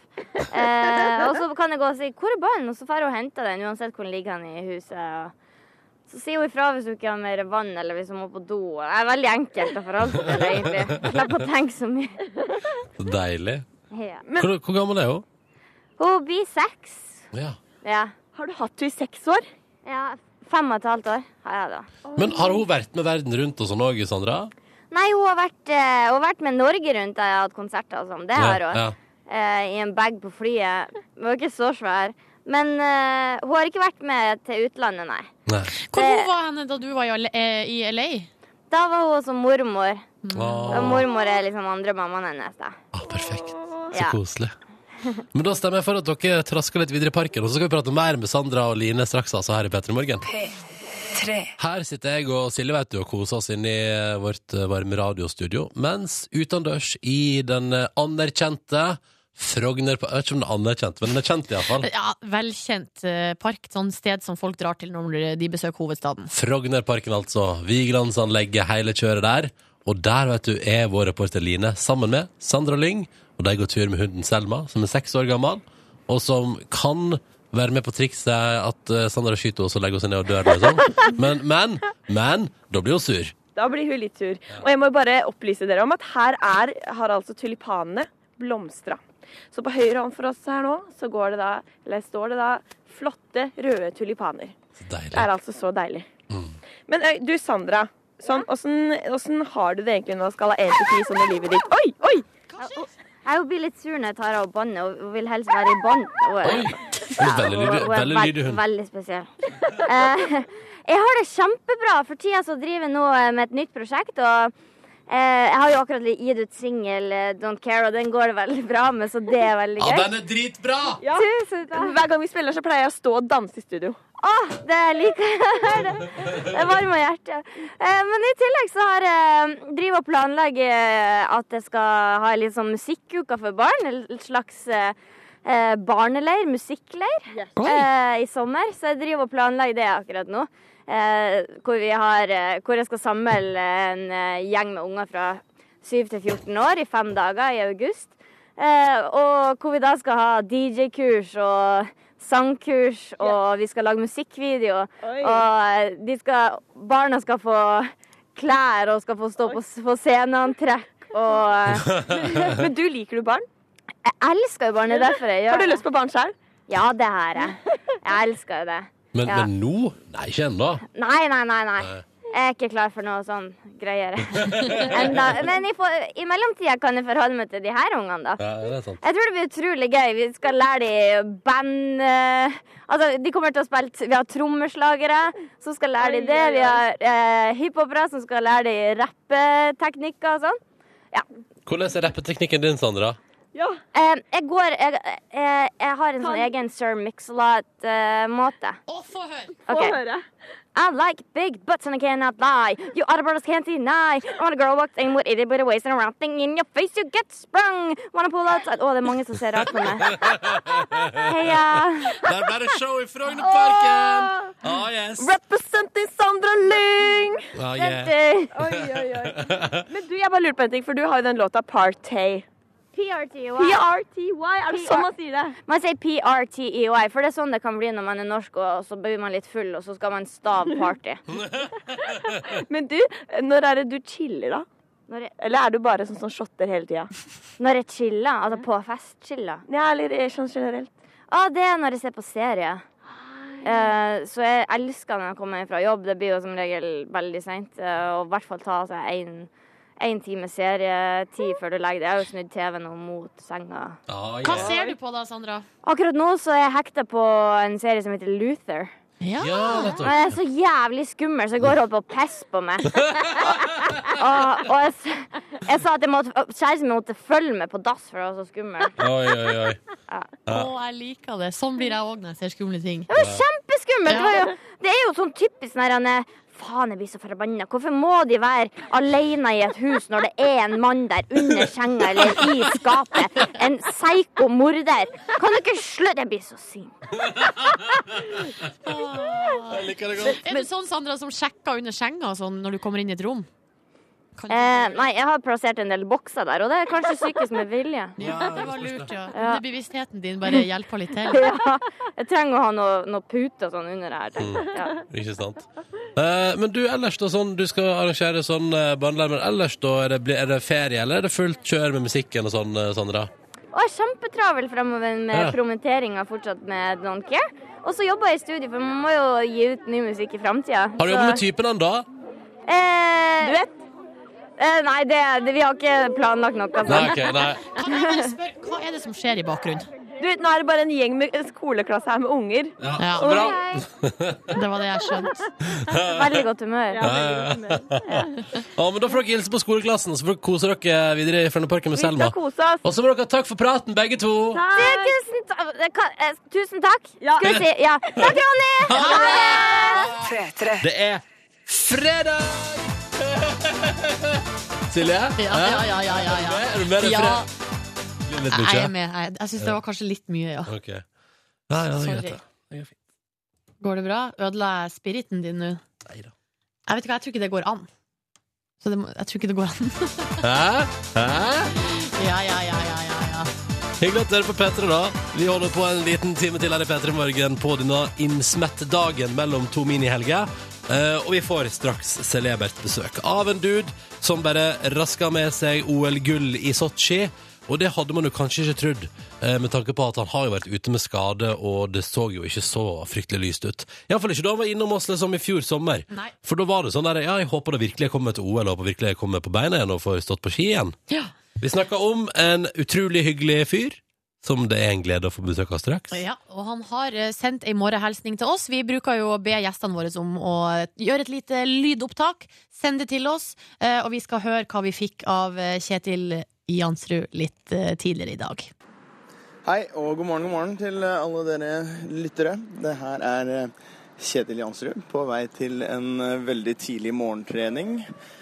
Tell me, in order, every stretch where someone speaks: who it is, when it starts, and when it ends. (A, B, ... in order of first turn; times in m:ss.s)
0:00.5-0:05.3 A
0:06.1-0:12.2 A
0:10.2-0:11.2 B
0:13.0-0:13.7 B
0:13.9-0:14.2 A
0:14.4-0:15.2 B
0:16.0-0:17.2 A
0:17.3-0:17.6 B
0:17.8-0:18.1 A
0:18.3-0:19.5 C
0:19.8-0:21.9 A
0:22.0-0:22.6 C
0:22.2-0:24.5 B
0:24.9-0:35.3 A
0:28.4-0:28.9 B
0:35.5-0:35.7 B
0:35.9-0:38.3 D
0:35.9-0:36.3 A
0:38.7-0:40.0 A
0:40.2-0:41.0 D
0:40.3-0:41.0 B
0:40.7-0:42.8 A
0:42.9-0:44.5 B
0:43.2-0:43.9 C
0:43.9-0:44.2 A
0:45.3-0:50.2 B
0:50.2-0:51.5 E
0:51.6-1:01.9 B
1:01.8-1:06.3 D
1:06.3-1:23.3 B
1:23.6-1:29.0 C
1:29.5-1:34.6 C
1:34.8-1:35.3 B
1:35.1-1:36.1 C
1:36.3-1:36.6 B
1:36.9-1:42.2 C
1:42.5-1:42.9 D
1:43.2-1:54.5 A
1:46.4-1:48.6 B
1:55.1-2:00.1 A
1:59.8-2:01.0 B
2:01.0-2:04.0 C
2:01.1-2:02.0 A
2:04.2-2:42.0 A
2:17.3-2:17.6 C
2:17.6-2:17.8 D
2:35.0-2:35.5 C
2:41.7-2:42.6 B
2:42.0-2:43.4 C
2:44.0-2:45.8 A
2:44.9-2:46.3 C
2:46.7-2:49.5 A
2:49.1-2:50.8 B
2:50.9-2:58.4 A
2:51.8-2:52.0 B
2:54.4-2:55.3 B
2:58.4-2:59.0 B
2:59.0-3:10.6 A
3:06.0-3:06.8 C
3:11.6-3:13.2 B
3:13.5-3:13.8 C
3:13.9-3:18.8 A
3:16.2-3:16.5 C
3:18.9-3:19.6 D
3:19.7-3:20.0 A
3:19.7-3:20.2 C
3:20.7-3:30.3 A
3:30.2-3:31.3 B
3:31.1-3:32.2 A
3:32.2-3:35.3 B
3:33.4-3:34.5 C
3:35.2-3:37.5 C
3:37.5-3:39.8 B
3:37.8-3:38.6 A
3:38.5-3:42.4 C
3:42.9-3:43.8 A
3:43.6-3:45.6 C
3:44.7-3:45.1 A
3:45.6-3:51.2 A
3:52.0-3:54.6 C
3:55.4-3:57.1 C
3:57.6-3:59.6 A
3:59.7-4:00.9 C
4:01.3-4:02.8 A
4:03.6-4:14.0 A
4:14.1-4:14.7 B
4:14.4-4:15.6 D
4:14.7-4:14.9 C
4:15.8-4:18.9 A
4:19.2-4:19.9 D
4:19.4-4:20.4 B
4:19.7-4:29.0 A
4:29.0-4:29.8 B
4:30.1-4:30.4 A
4:30.5-4:33.1 D
4:33.1-4:46.9 A
4:33.2-4:33.4 B
4:34.1-4:34.4 D
4:47.3-4:47.8 B
4:48.8-4:53.5 D
4:49.6-4:50.6 B
4:54.4-4:55.0 D
4:54.5-4:58.2 A
4:58.2-5:01.4 D
4:58.2-4:59.1 B
4:59.3-4:59.6 A
5:01.3-5:05.0 A
5:04.4-5:13.3 B
5:13.7-5:21.4 A
5:15.3-5:15.6 B
5:21.0-5:22.0 B
5:22.7-5:23.6 A
5:23.4-5:23.7 C
5:24.6-5:28.3 A
5:26.8-5:27.6 B
5:27.7-5:29.9 D
5:30.2-5:33.8 C
5:32.8-5:34.6 B
5:33.0-5:33.4 D
5:33.2-5:33.8 A
5:34.5-5:35.4 D
5:35.7-5:36.4 B
5:36.0-5:37.2 A
5:36.9-5:38.3 C
5:37.0-5:44.6 B
5:42.0-5:42.8 C
5:44.5-5:45.2 C
5:44.7-5:50.2 A
5:47.2-5:47.6 C
5:48.9-5:50.2 B
5:49.0-5:49.8 D
5:50.2-5:50.8 E
5:50.8-5:57.4 B
5:55.4-5:57.5 D
5:58.2-5:58.9 B
5:58.5-6:00.7 D
6:00.7-6:01.0 B
6:01.7-6:03.0 B
6:01.8-6:02.4 D
6:03.8-6:05.8 D
6:06.0-6:06.3 B
6:06.9-6:07.9 D
6:08.8-6:10.4 D
6:10.4-6:11.7 B
6:11.9-6:13.5 D
6:14.0-6:41.0 B
6:41.6-6:46.2 B
6:46.1-6:58.7 D
6:59.6-7:08.0 F